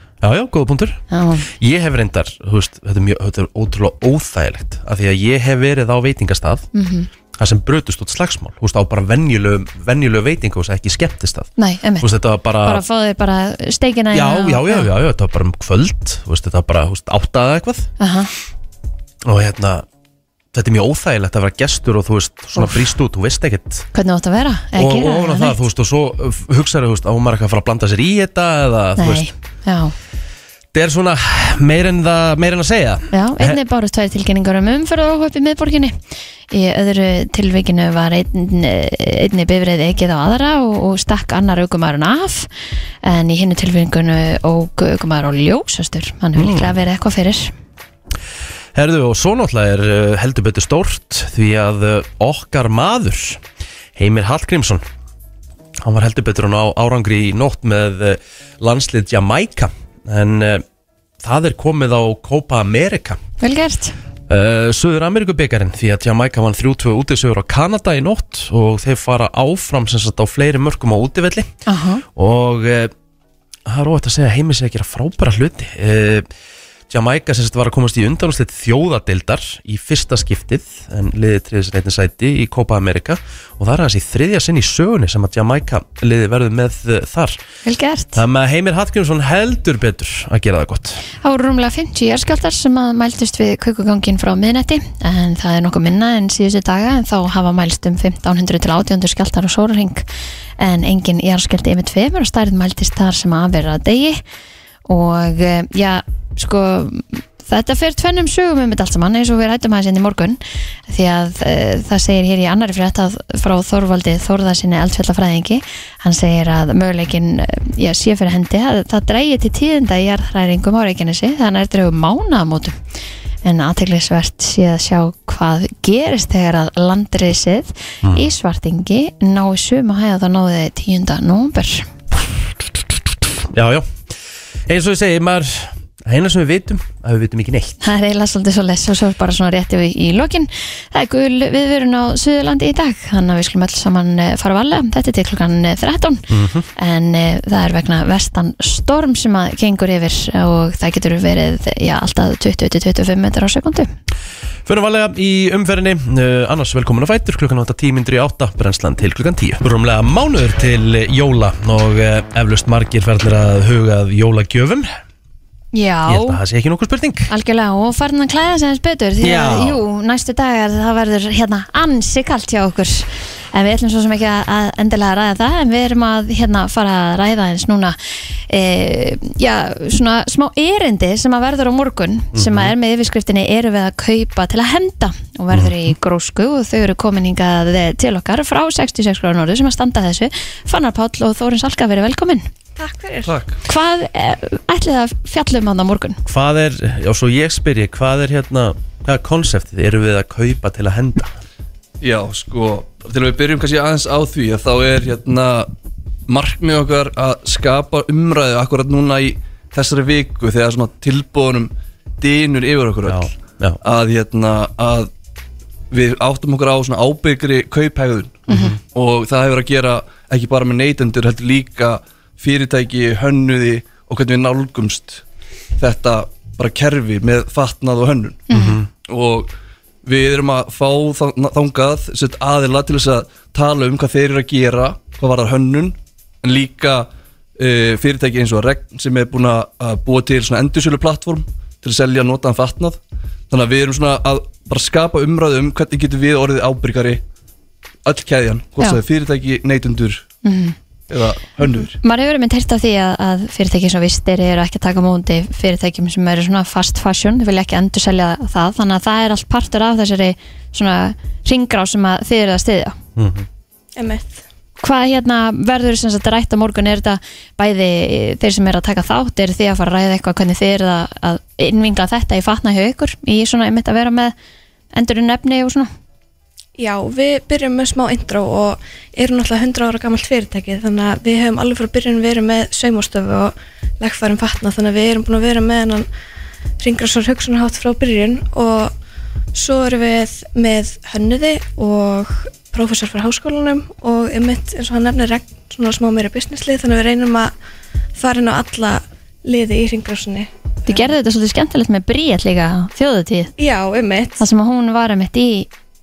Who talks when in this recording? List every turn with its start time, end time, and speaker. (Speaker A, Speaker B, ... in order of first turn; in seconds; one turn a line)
Speaker A: 0.2-1.0
Speaker B: 1.1-1.5
Speaker A: 1.6-6.7
Speaker B: 6.7-7.1
Speaker A: 7.4-11.5
Speaker B: 11.6-14.9
Speaker A: 12.0-12.8
Speaker A: 14.1-17.9
Speaker B: 18.0-18.3
Speaker A: 19.2-19.9
Speaker A: 20.5-23.9
Speaker B: 22.6-22.8
Speaker B: 23.9-25.6
Speaker A: 24.8-29.2
Speaker B: 29.0-29.9
Speaker A: 30.7-33.6
Speaker B: 33.1-36.0
Speaker B: 36.5-42.5
Speaker B: 43.0-47.5
Speaker A: 46.4-46.7
Speaker A: 48.7-53.4
Speaker A: 54.0-54.8
Speaker A: 55.8-60.6
Speaker A: 61.2-63.2
Speaker B: 63.4-63.9
Speaker A: 64.3-71.5
Speaker B: 71.7-72.0
Speaker A: 72.2-72.9
Speaker A: 73.7-76.3
Speaker A: 76.9-87.4
Speaker B: 87.6-88.2
Speaker A: 88.1-91.0
Speaker B: 91.2-100.0
Speaker B: 100.6-104.2
Speaker B: 104.8-122.8
Speaker B: 123.4-131.9
Speaker A: 128.0-128.3
Speaker A: 133.5-133.9
Speaker A: 134.7-137.8
Speaker B: 137.8-153.9
Speaker A: 146.3-146.7
Speaker A: 154.7-164.9
Speaker B: 165.7-166.4
Speaker A: 166.1-167.3
Speaker B: 167.3-177.9
Speaker A: 169.2-169.8
Speaker B: 178.5-192.5
Speaker A: 182.3-182.7
Speaker C: 192.8-193.3
Speaker D: 193.2-193.6
Speaker B: 193.7-196.2
Speaker A: 196.2-201.3
Speaker D: 202.0-205.7
Speaker D: 206.3-213.3
Speaker A: 213.1-213.8
Speaker D: 213.8-215.1
Speaker D: 215.9-225.2
Speaker A: 218.5-218.8
Speaker B: 218.5-218.8
Speaker D: 225.8-228.5
Speaker B: 228.5-228.8
Speaker A: 228.5-228.9
Speaker D: 229.0-229.5
Speaker D: 230.0-243.0
Speaker D: 243.5-247.2
Speaker D: 248.0-250.2
Speaker B: 250.4-250.8
Speaker D: 251.1-251.9
Speaker B: 252.0-263.0
Speaker A: 263.1-263.4
Speaker C: 263.9-264.4
Speaker B: 264.8-274.3
Speaker B: 274.9-275.9
Speaker C: 276.8-286.1
Speaker C: 286.8-288.9
Speaker C: 289.5-297.5
Speaker C: 298.2-300.9
Speaker B: 300.9-303.5
Speaker C: 303.6-304.4
Speaker B: 304.4-305.7